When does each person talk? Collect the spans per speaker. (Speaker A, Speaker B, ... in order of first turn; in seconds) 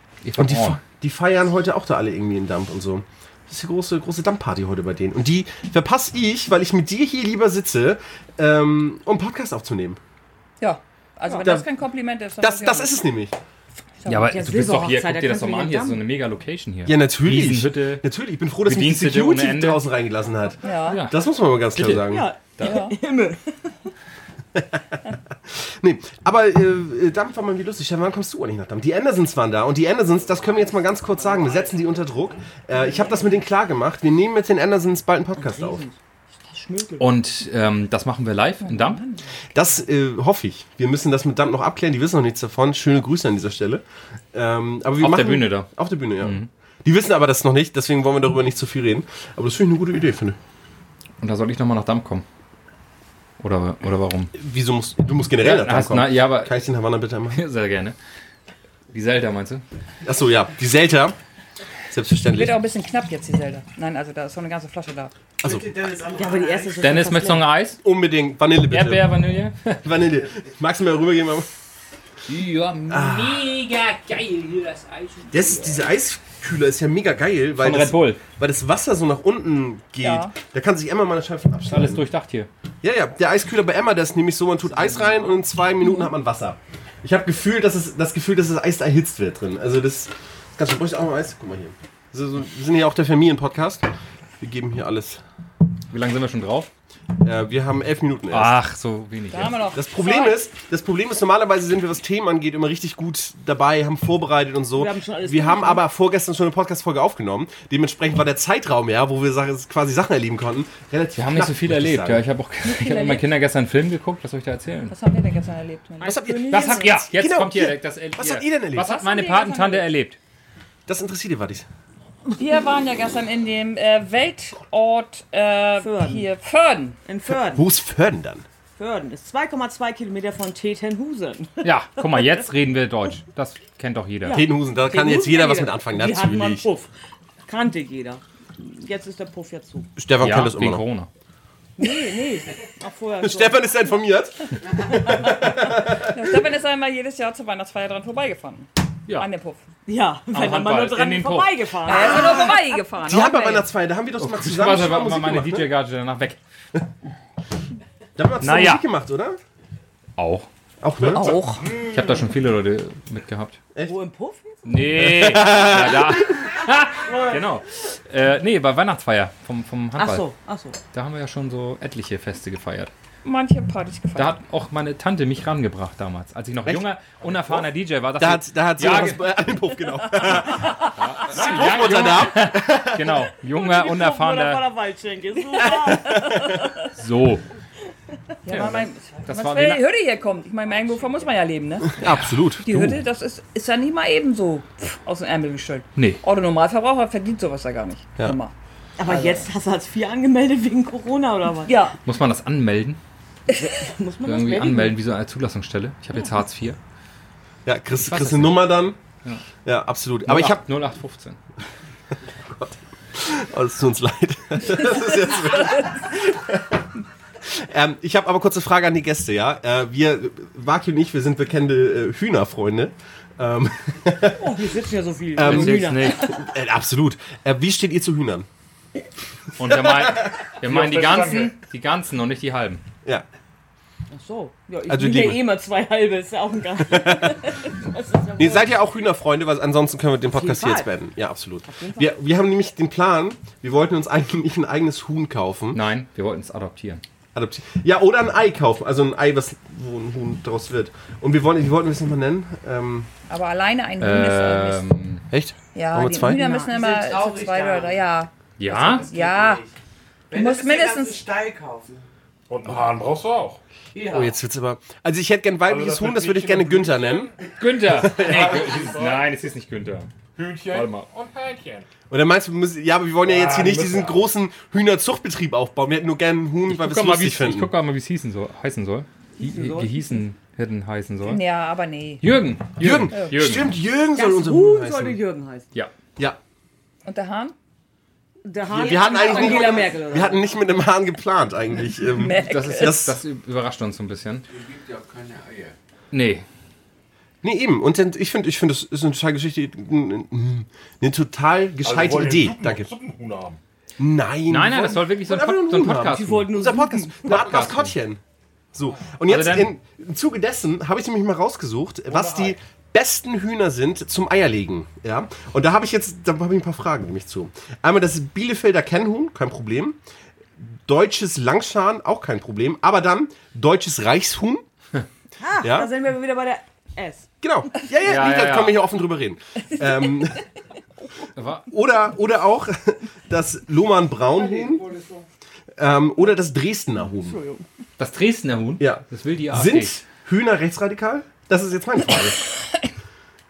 Speaker A: 0.2-0.8, 14.1-18.1, 18.6-19.8, 20.9-21.2, 21.7-22.9, 37.0-39.0, 45.0-46.5, 51.2-52.2, 53.4-54.3, 55.4-56.5, 57.3-58.0, 58.9-59.6, 66.8-67.8, 68.7-69.8, 72.3-75.8, 77.6-78.2, 81.7-82.5, 95.9-96.7, 98.3-99.6, 111.2-114.9, 116.5-120.2, 131.6-134.4, 140.2-141.1, 150.3-151.7, 154.2-156.4, 158.4-158.8, 160.2-160.5, 161.7-163.6, 164.6-170.2, 170.9-172.9, 174.2-179.2, 180.3-184.6, 186.9-187.4, 188.5-189.8, 192.1-192.8, 195.9-196.2, 202.0-203.0, 204.2-206.8, 208.0-209.4, 210.2-211.4, 225.4-226.3, 229.6-232.8, 245.7-247.0, 254.0-255.2, 258.6-259.1, 267.6-270.1, 270.7-271.1, 276.7-281.4, 282.2-283.8, 292.3-294.4, 296.1-296.4, 304.5-306.5, 307.2-307.9, 309.3-309.7, 328.0-328.8, 331.4-331.7, 338.0-339.9
Speaker B: 0.3-10.0, 11.4-11.7, 12.4-13.3, 16.9-22.3, 24.5-24.8, 25.5-35.8, 39.5-50.4, 54.3-57.4, 60.0-61.1, 61.9-62.6, 65.4-65.9, 67.8-69.1, 69.8-71.5, 72.9-73.5, 75.3-82.0, 82.8-93.9, 94.4-95.2, 97.2-98.5, 99.7-112.2, 116.0-118.9, 120.9-121.7, 127.3-128.4, 134.3-136.7, 139.9-140.8, 143.2-146.4, 152.3-155.7, 158.2-159.4, 160.8-161.4, 164.9-166.4, 176.6-177.7, 178.2-183.2, 186.1-186.5, 191.9-193.0, 207.6-209.0, 209.6-210.6, 212.5-216.9, 217.4-224.5, 225.3-228.5, 229.7-230.1, 234.9-235.4, 236.9-237.4, 238.4-245.8, 247.3-253.1, 255.3-256.5, 264.1-267.3, 268.0-268.7, 272.1-277.7, 282.8-285.2, 288.7-293.2, 297.4-302.9, 304.0-308.2, 308.7-320.0, 320.6-324.6, 325.6-325.9, 327.4-330.4, 331.7-334.9, 335.8-337.4, 338.8-342.4
Speaker C: 10.6-12.9, 14.0-14.3, 20.6-21.0, 22.6-22.9, 38.6-39.2, 62.3-65.1, 80.0-80.3, 99.3-100.4, 112.6-113.2, 114.9-116.2, 118.8-119.9, 122.3-127.0, 145.9-149.6, 151.8-153.7, 161.1-161.7, 173.2-174.3, 188.4-192.0, 192.6-198.5, 199.0-199.5, 201.7-202.0, 253.3-254.8, 255.7-259.6, 260.3-261.3, 281.2-282.3, 287.0-287.5, 289.0-289.7, 292.1-293.0
Speaker D: 14.2-16.0, 22.1-23.6, 35.4-37.1, 66.1-67.5, 104.7-105.8, 116.0-117.0, 125.8-126.2, 127.0-127.6, 128.8-132.3, 134.2-136.9, 137.5-139.9, 141.8-143.6, 149.9-152.7, 163.8-164.9, 167.0-167.4, 169.9-170.8, 183.5-186.4, 199.0-201.8, 203.5-204.9, 224.3-226.2, 234.1-238.7, 240.3-240.9, 241.6-242.1, 279.4-280.2, 284.1-285.7, 288.4-290.5, 306.0-307.3, 325.4-327.3, 337.2-337.6
Speaker E: 30.5-31.8, 65.4-66.9, 256.5-258.0, 258.7-259.7, 260.3-262.0, 263.9-264.4, 289.2-289.8, 294.5-295.7, 334.3-335.2
Speaker F: 161.6-161.9, 230.6-231.6, 262.5-263.6, 265.7-267.3, 267.9-269.3, 270.3-271.9, 273.2-274.3, 301.8-303.6, 312.1-312.6